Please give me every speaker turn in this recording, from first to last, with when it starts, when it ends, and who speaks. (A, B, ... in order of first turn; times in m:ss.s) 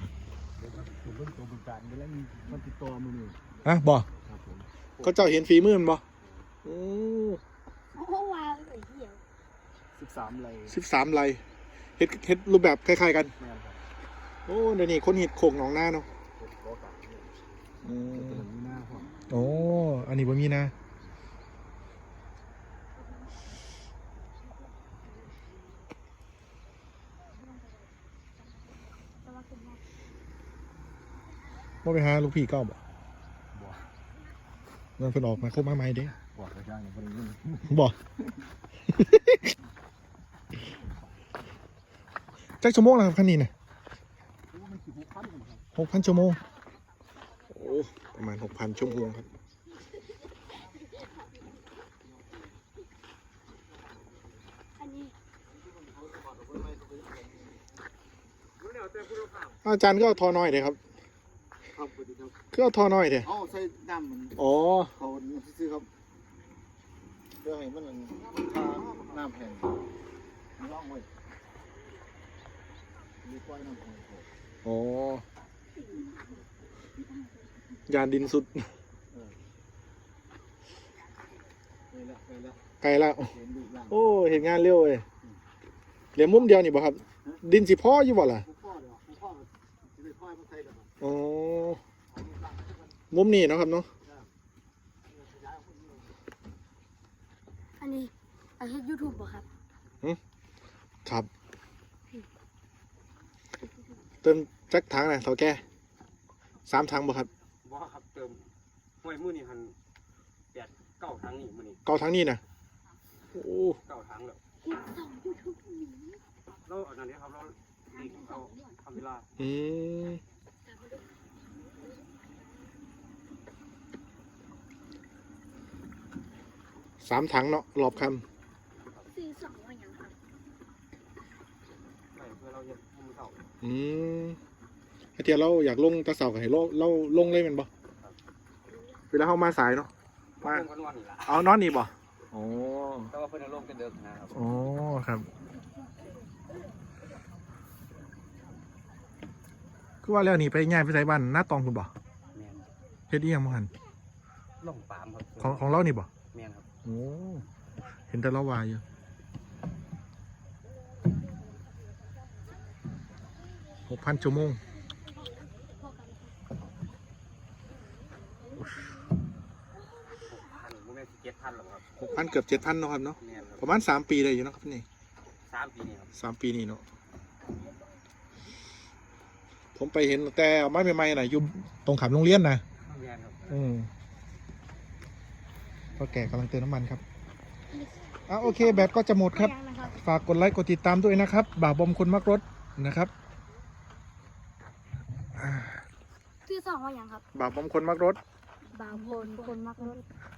0:00.6-0:03.6 A
0:03.6-0:04.1 B
0:04.2-0:05.2 A
0:05.0-0:06.0 B
0:06.6-0:07.4 B
0:07.9-0:09.2 C
0:10.0-0:10.7 A
0:10.7-0:11.4 B
0:12.0-0:13.3 B
0:13.4-0:13.8 A
0:14.5-0:16.1 B
0:16.2-0:17.3 A
0:17.8-0:18.5 B
0:18.2-0:19.2 A
0:19.3-0:20.7 B
0:29.2-0:29.8 C
0:31.8-0:32.8 B
0:35.0-0:36.2 B
0:36.3-0:37.7 A
0:37.7-0:38.0 B
0:38.9-0:39.5 B
0:42.6-0:43.5 B
0:44.5-0:45.6 A
0:45.8-0:46.4 B
0:47.5-0:49.3 B
0:54.8-0:55.2 C
0:56.2-0:56.9 A
0:58.6-0:59.6 D
0:59.6-1:00.8 B
1:01.8-1:02.3 A
1:02.5-1:03.4 B
1:03.3-1:04.4 A
1:04.3-1:04.9 B
1:05.0-1:05.9 A
1:07.5-1:09.6 A
1:10.6-1:11.1 A
1:13.2-1:14.3 A
1:14.6-1:15.2 B
1:15.9-1:16.2 C
1:17.9-1:18.7 B
1:21.9-1:22.6 A
1:22.8-1:23.4 B
1:23.3-1:24.0 A
1:23.9-1:25.0 B
1:26.2-1:28.5 B
1:28.5-1:30.9 A
1:31.0-1:31.8 B
1:32.2-1:32.7 A
1:33.1-1:33.9 B
1:35.3-1:36.0 A
1:37.8-1:39.5 C
1:44.2-1:45.6 B
1:46.7-1:47.3 B
1:47.6-1:48.5 D
1:49.0-1:49.8 D
1:50.5-1:51.8 D
1:51.9-1:52.4 B
1:53.3-1:53.8 B
1:53.9-1:54.4 D
1:54.6-1:56.2 C
1:56.7-1:59.3 D
1:57.9-1:58.7 C
1:59.4-2:00.2 B
2:07.0-2:08.2 B
2:09.1-2:10.1 C
2:12.1-2:13.5 D
2:13.6-2:14.4 B
2:15.2-2:17.7 B
2:19.1-2:19.9 B
2:20.4-2:21.5 D
2:20.4-2:20.7 B
2:21.2-2:23.1 B
2:23.1-2:24.4 D
2:24.3-2:25.3 B
2:30.0-2:31.9 B
2:32.3-2:32.7 D
2:33.1-2:33.7 B
2:34.6-2:35.7 D
2:35.4-2:36.1 B
2:36.3-2:36.7 D
2:36.9-2:37.5 B
2:38.1-2:38.8 B
2:43.9-2:44.6 B
2:45.8-2:46.1 C
2:50.2-2:51.8 D
2:52.0-2:54.8 B
2:53.2-2:53.7 D
2:55.5-2:56.1 D
2:56.2-2:56.8 B
2:59.8-3:02.6 B
3:02.8-3:03.5 D
3:03.5-3:03.9 B
3:06.0-3:07.0 B
3:07.7-3:10.0 C
3:08.3-3:13.1 B
3:15.4-3:15.8 B
3:16.5-3:17.2 C
3:17.3-3:18.2 B
3:18.7-3:20.0 C